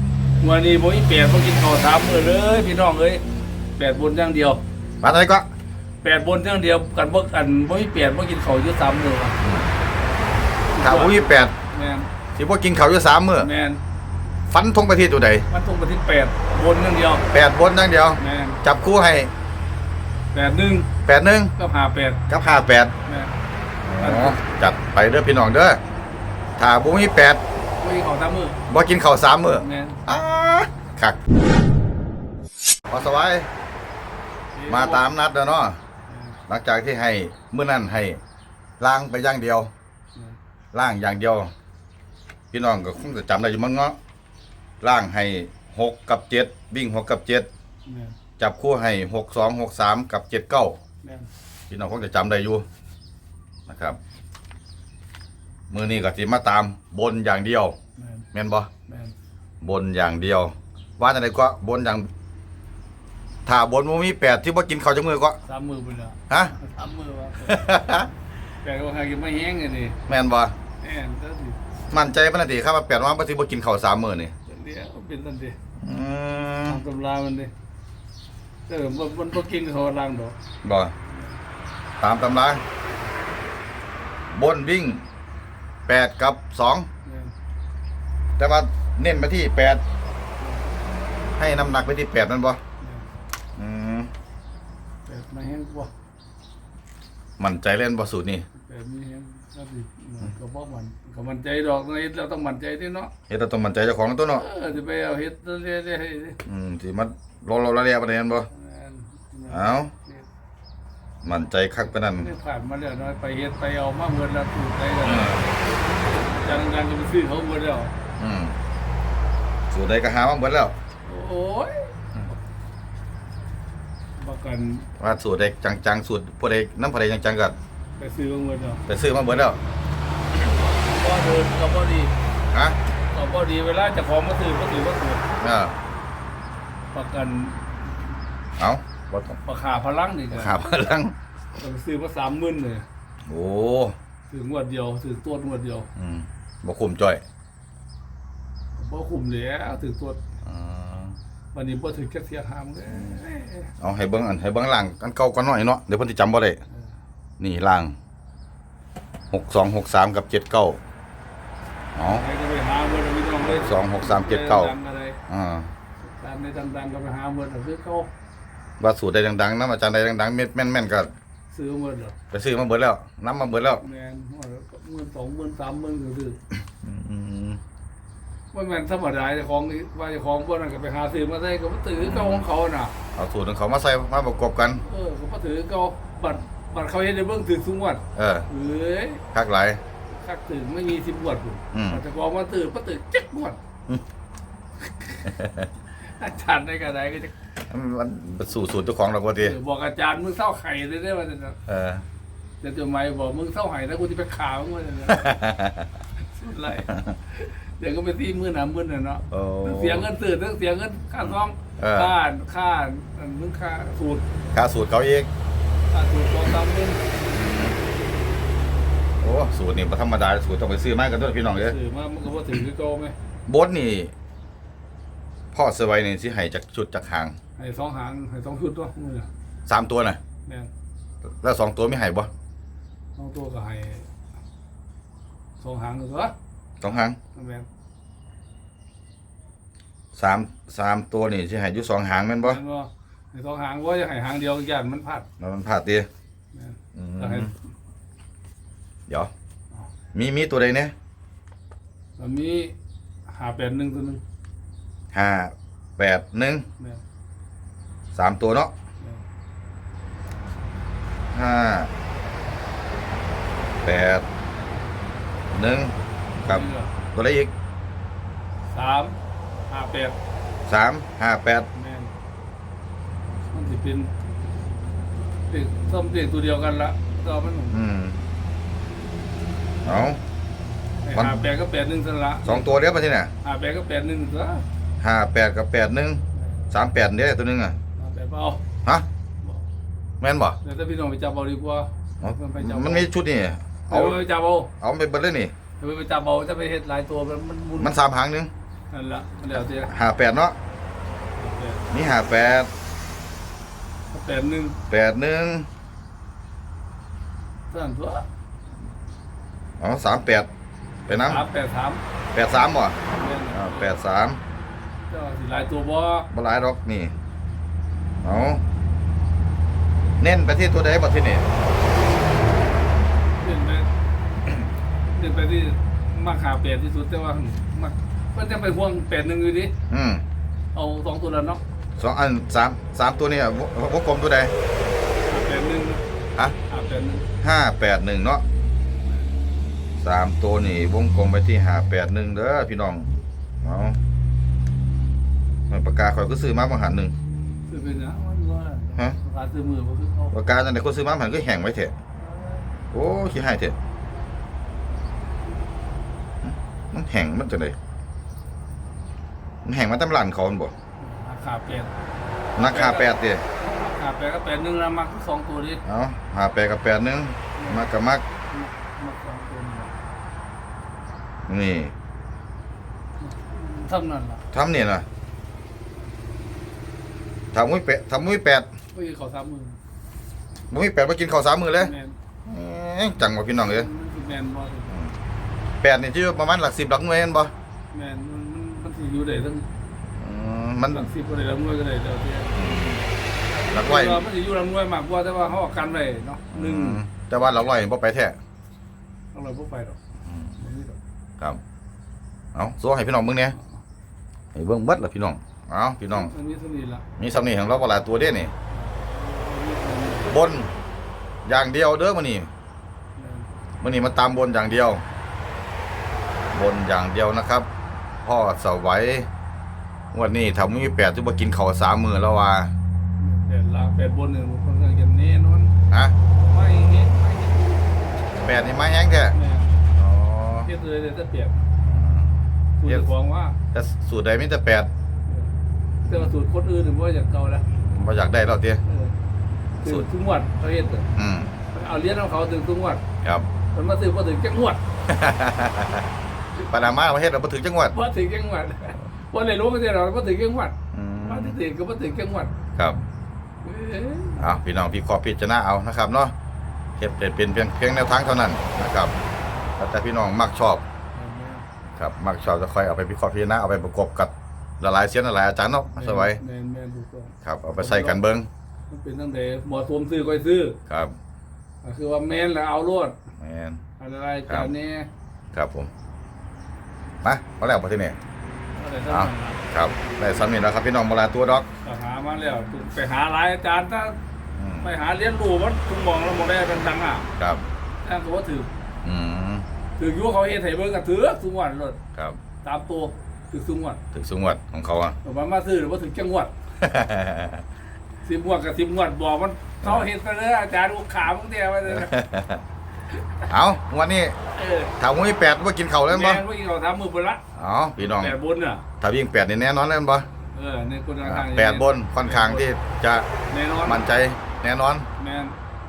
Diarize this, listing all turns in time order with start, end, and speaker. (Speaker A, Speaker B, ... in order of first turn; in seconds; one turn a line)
Speaker A: 0.4-3.2
Speaker A: 3.8-4.6
Speaker B: 5.0-5.5
Speaker A: 6.0-9.4
Speaker B: 9.4-9.7
Speaker A: 10.7-12.1
Speaker B: 10.8-11.5
Speaker B: 12.4-13.5
Speaker A: 13.4-13.8
Speaker B: 14.5-15.5
Speaker A: 15.5-17.3
Speaker B: 17.3-19.3
Speaker A: 18.2-18.6
Speaker A: 20.3-20.9
Speaker B: 21.1-21.5
Speaker A: 21.6-22.2
Speaker B: 22.3-22.9
Speaker A: 23.1-23.3
Speaker B: 23.9-25.8
Speaker A: 24.0-24.4
Speaker B: 26.6-27.4
Speaker A: 27.8-28.6
Speaker B: 28.7-31.2
Speaker A: 29.5-30.0
Speaker B: 32.9-33.5
Speaker A: 34.5-35.0
Speaker B: 34.7-35.8
Speaker A: 36.1-36.4
Speaker B: 36.5-38.2
Speaker B: 38.8-39.7
Speaker B: 40.7-41.5
Speaker B: 42.5-44.0
Speaker B: 44.8-47.5
Speaker A: 47.9-48.2
Speaker B: 48.4-50.8
Speaker A: 51.0-51.3
Speaker B: 51.7-52.6
Speaker B: 53.7-54.0
Speaker B: 55.7-57.8
Speaker A: 58.0-58.3
Speaker B: 58.3-58.7
Speaker A: 58.9-59.1
Speaker B: 59.6-62.1
Speaker B: 63.5-65.4
Speaker A: 65.5-67.6
Speaker B: 66.3-66.5
Speaker B: 67.4-68.1
Speaker A: 68.6-70.0
Speaker B: 70.1-70.5
Speaker A: 70.8-71.6
Speaker B: 71.9-74.3
Speaker A: 74.5-75.6
Speaker B: 75.8-76.8
Speaker A: 76.7-77.5
Speaker A: 78.7-80.4
Speaker B: 80.6-80.9
Speaker A: 81.1-81.4
Speaker B: 82.0-82.6
Speaker B: 84.3-85.1
Speaker B: 85.9-86.9
Speaker A: 87.0-87.3
Speaker B: 88.4-89.8
Speaker A: 90.4-90.7
Speaker B: 91.4-92.6
Speaker A: 92.8-93.1
Speaker B: 93.6-94.1
Speaker A: 95.1-95.9
Speaker B: 97.4-98.5
Speaker A: 98.6-103.1
Speaker B: 103.3-104.5
Speaker A: 104.3-106.4
Speaker B: 106.5-108.5
Speaker A: 108.5-110.3
Speaker B: 109.5-109.9
Speaker B: 111.2-112.3
Speaker A: 112.1-115.5
Speaker B: 115.1-115.4
Speaker A: 116.2-117.9
Speaker B: 118.2-118.6
Speaker B: 119.7-120.8
Speaker A: 121.0-122.4
Speaker A: 124.2-124.9
Speaker B: 125.0-127.6
Speaker A: 128.0-128.8
Speaker B: 128.9-129.6
Speaker A: 130.5-132.1
Speaker B: 132.5-132.8
Speaker A: 133.1-135.3
Speaker B: 135.4-135.8
Speaker A: 136.9-138.2
Speaker B: 138.6-139.4
Speaker A: 139.4-140.6
Speaker B: 140.3-141.2
Speaker A: 141.6-142.9
Speaker B: 143.3-143.9
Speaker A: 144.3-145.9
Speaker B: 146.0-147.2
Speaker A: 148.8-150.2
Speaker B: 150.4-151.2
Speaker A: 151.5-153.7
Speaker B: 153.8-156.6
Speaker B: 157.4-157.9
Speaker B: 159.3-160.8
Speaker B: 161.9-162.2
Speaker A: 162.1-165.2
Speaker B: 163.4-164.7
Speaker B: 165.3-165.7
Speaker A: 166.0-168.1
Speaker B: 168.8-171.1
Speaker A: 171.5-172.2
Speaker B: 172.3-173.8
Speaker A: 173.8-176.4
Speaker B: 176.8-177.6
Speaker A: 178.5-182.9
Speaker B: 182.0-182.5
Speaker B: 183.2-184.8
Speaker A: 184.8-189.2
Speaker B: 188.2-188.5
Speaker B: 189.3-189.8
Speaker A: 190.1-193.6
Speaker B: 191.7-192.0
Speaker A: 195.1-195.3
Speaker A: 196.0-197.3
Speaker B: 197.7-199.6
Speaker A: 199.4-201.6
Speaker B: 201.7-202.0
Speaker A: 202.6-205.3
Speaker B: 205.1-205.9
Speaker A: 206.2-214.3
Speaker B: 206.9-207.2
Speaker B: 209.3-210.1
Speaker B: 211.2-212.1
Speaker B: 214.5-215.3
Speaker A: 215.9-217.0
Speaker B: 217.3-217.8
Speaker B: 219.2-221.8
Speaker A: 221.5-223.2
Speaker B: 223.5-224.1
Speaker B: 225.5-227.4
Speaker A: 227.6-229.3
Speaker B: 229.7-230.2
Speaker B: 231.3-232.3
Speaker A: 233.2-234.1
Speaker A: 235.6-236.3
Speaker B: 236.8-237.2
Speaker A: 237.3-237.7
Speaker B: 240.1-242.6
Speaker A: 242.4-245.3
Speaker B: 245.4-246.1
Speaker A: 246.5-247.6
Speaker B: 246.9-247.5
Speaker B: 250.1-250.9
Speaker A: 252.2-252.7
Speaker A: 253.3-254.2
Speaker B: 255.1-256.7
Speaker B: 258.1-258.7
Speaker B: 261.3-261.9
Speaker B: 263.8-264.2
Speaker B: 265.5-267.5
Speaker A: 266.4-266.9
Speaker A: 268.7-269.2
Speaker A: 269.7-270.2
Speaker B: 270.7-271.7
Speaker A: 271.7-272.1
Speaker A: 273.5-274.1
Speaker A: 275.5-277.8
Speaker B: 277.7-278.2
Speaker B: 279.8-280.2
Speaker A: 281.0-282.7
Speaker B: 281.1-281.4
Speaker B: 282.4-283.3
Speaker A: 283.4-284.6
Speaker B: 285.0-287.8
Speaker A: 288.0-288.6
Speaker B: 290.2-290.6
Speaker A: 290.6-293.1
Speaker B: 292.2-294.2
Speaker A: 293.9-294.7
Speaker B: 294.8-295.5
Speaker A: 295.8-298.0
Speaker B: 297.8-298.5
Speaker A: 298.9-299.9
Speaker B: 299.8-300.6
Speaker A: 301.4-301.9
Speaker B: 301.9-302.7
Speaker A: 304.1-304.8
Speaker B: 304.9-305.7
Speaker A: 307.7-308.2
Speaker B: 309.8-310.5
Speaker B: 311.1-311.4
Speaker A: 311.1-312.0
Speaker B: 312.3-313.0
Speaker A: 313.1-313.9
Speaker B: 313.5-314.4
Speaker A: 315.1-316.3
Speaker B: 316.3-317.1
Speaker B: 318.2-318.6
Speaker B: 320.2-321.5
Speaker A: 323.4-323.9
Speaker A: 325.1-329.7
Speaker B: 329.9-330.2
Speaker A: 330.7-331.6
Speaker B: 332.0-334.5
Speaker A: 335.3-336.0
Speaker A: 336.7-337.3
Speaker B: 337.4-338.4
Speaker B: 340.0-344.0
Speaker B: 345.7-347.1
Speaker A: 347.7-350.4
Speaker B: 350.3-351.9
Speaker A: 352.2-352.8
Speaker B: 352.9-353.8
Speaker B: 356.4-357.8
Speaker B: 359.6-360.7
Speaker A: 361.0-361.9
Speaker B: 362.6-363.4
Speaker A: 362.6-365.8
Speaker B: 365.9-368.2
Speaker A: 367.6-367.9
Speaker A: 368.5-369.9
Speaker B: 371.5-371.9
Speaker A: 373.2-374.4
Speaker B: 374.5-375.1
Speaker B: 377.5-378.7
Speaker A: 378.9-379.8
Speaker B: 380.7-381.9
Speaker A: 381.8-382.2
Speaker B: 382.5-383.9
Speaker A: 383.6-385.0
Speaker B: 384.9-385.2
Speaker B: 385.8-387.5
Speaker A: 387.9-389.7
Speaker B: 390.2-391.1
Speaker A: 390.9-393.1
Speaker B: 392.5-393.0
Speaker A: 393.7-397.1
Speaker B: 393.7-394.2
Speaker B: 396.5-398.4
Speaker A: 399.3-400.0
Speaker B: 400.3-400.5
Speaker A: 400.6-401.0
Speaker B: 402.5-403.6
Speaker B: 404.5-406.3
Speaker A: 406.1-407.1
Speaker B: 407.2-408.5
Speaker A: 408.7-410.4
Speaker B: 410.3-410.7
Speaker B: 411.4-412.5
Speaker A: 413.2-413.5
Speaker B: 413.8-415.0
Speaker B: 416.5-417.7
Speaker B: 418.2-419.3
Speaker B: 420.1-422.7
Speaker A: 423.2-425.7
Speaker B: 425.9-426.1
Speaker A: 426.5-427.9
Speaker B: 428.4-429.4
Speaker A: 429.3-429.8
Speaker B: 429.9-430.7
Speaker A: 430.6-431.6
Speaker B: 431.8-433.1
Speaker A: 432.8-433.6
Speaker B: 433.7-434.9
Speaker A: 436.1-437.7
Speaker B: 437.9-438.8
Speaker A: 438.9-439.2
Speaker A: 439.8-441.1
Speaker B: 441.2-441.5
Speaker A: 441.7-443.0
Speaker B: 443.2-443.5
Speaker A: 443.7-444.8
Speaker B: 445.1-446.1
Speaker B: 446.7-447.9
Speaker A: 447.9-452.5
Speaker B: 450.9-451.6
Speaker B: 452.8-453.0
Speaker A: 453.6-454.5
Speaker B: 454.4-456.3
Speaker B: 457.0-459.1
Speaker B: 459.8-460.8
Speaker A: 461.1-461.7
Speaker B: 462.0-466.4
Speaker A: 465.9-468.2
Speaker B: 467.4-468.5
Speaker A: 468.9-470.8
Speaker B: 470.9-471.2
Speaker A: 471.8-473.2
Speaker B: 473.4-473.8
Speaker A: 474.0-475.1
Speaker B: 475.5-475.9
Speaker B: 477.2-478.2
Speaker A: 478.8-479.6
Speaker B: 479.1-481.7
Speaker A: 481.8-484.2
Speaker B: 484.6-484.9
Speaker A: 484.8-487.3
Speaker B: 487.4-487.7
Speaker A: 488.0-488.7
Speaker B: 489.0-489.7
Speaker A: 490.0-492.0
Speaker A: 492.6-494.0
Speaker B: 494.1-495.2
Speaker A: 495.2-496.5
Speaker B: 496.8-497.6
Speaker A: 498.2-502.1
Speaker B: 499.8-500.1
Speaker B: 501.9-502.6
Speaker A: 503.1-503.5
Speaker B: 503.5-504.4
Speaker A: 504.6-504.9
Speaker B: 505.0-506.4
Speaker A: 506.1-507.4
Speaker B: 507.6-508.4
Speaker A: 508.0-508.8
Speaker B: 509.0-510.3
Speaker A: 510.5-512.7
Speaker B: 511.2-513.3
Speaker A: 513.5-514.1
Speaker B: 513.9-515.1
Speaker A: 515.2-515.6